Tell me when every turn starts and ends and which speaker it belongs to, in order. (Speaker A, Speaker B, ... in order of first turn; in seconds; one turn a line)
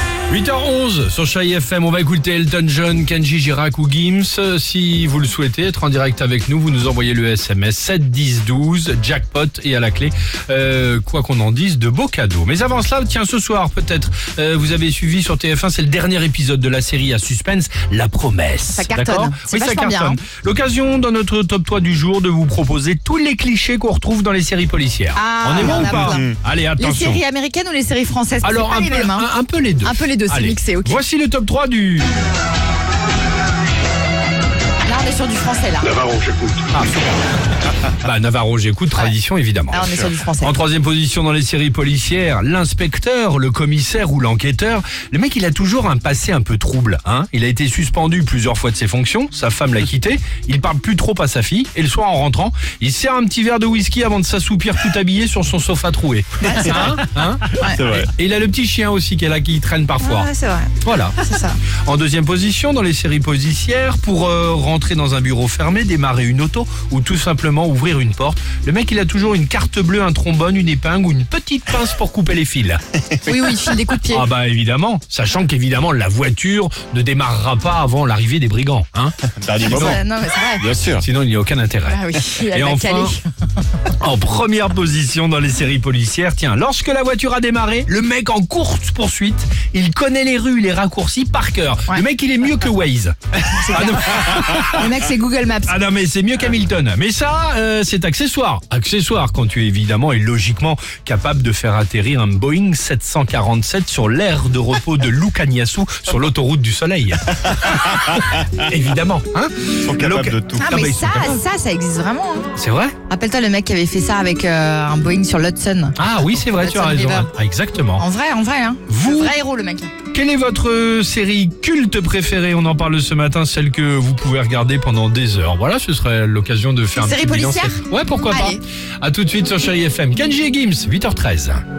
Speaker A: 0.3-27.2
Speaker B: 18.7-20.2
Speaker B: 25.1-26.3
Speaker C: 25.9-26.4
Speaker B: 26.8-29.3
Speaker A: 28.4-32.2
Speaker B: 29.8-31.0
Speaker B: 34.8-36.1
Speaker C: 36.0-36.6
Speaker A: 36.7-37.2
Speaker A: 37.9-60.3
Speaker B: 39.7-40.6
Speaker B: 56.4-57.0
Speaker B: 57.5-57.8
Speaker C: 57.6-58.1
Speaker B: 60.0-61.6
Speaker A: 60.8-61.2
Speaker A: 61.8-72.8
Speaker B: 73.2-74.2
Speaker A: 74.1-79.1
Speaker C: 79.4-80.0
Speaker B: 79.7-80.7
Speaker C: 80.6-81.0
Speaker A: 81.0-83.1
Speaker B: 81.9-83.2
Speaker A: 83.9-94.9
Speaker B: 93.6-95.8
Speaker A: 95.7-111.4
Speaker C: 109.8-110.6
Speaker B: 110.6-112.5
Speaker A: 112.6-113.0
Speaker B: 113.1-117.3
Speaker A: 116.0-118.0
Speaker B: 118.0-119.9
Speaker A: 118.9-119.3
Speaker A: 120.1-131.6
Speaker B: 127.0-128.6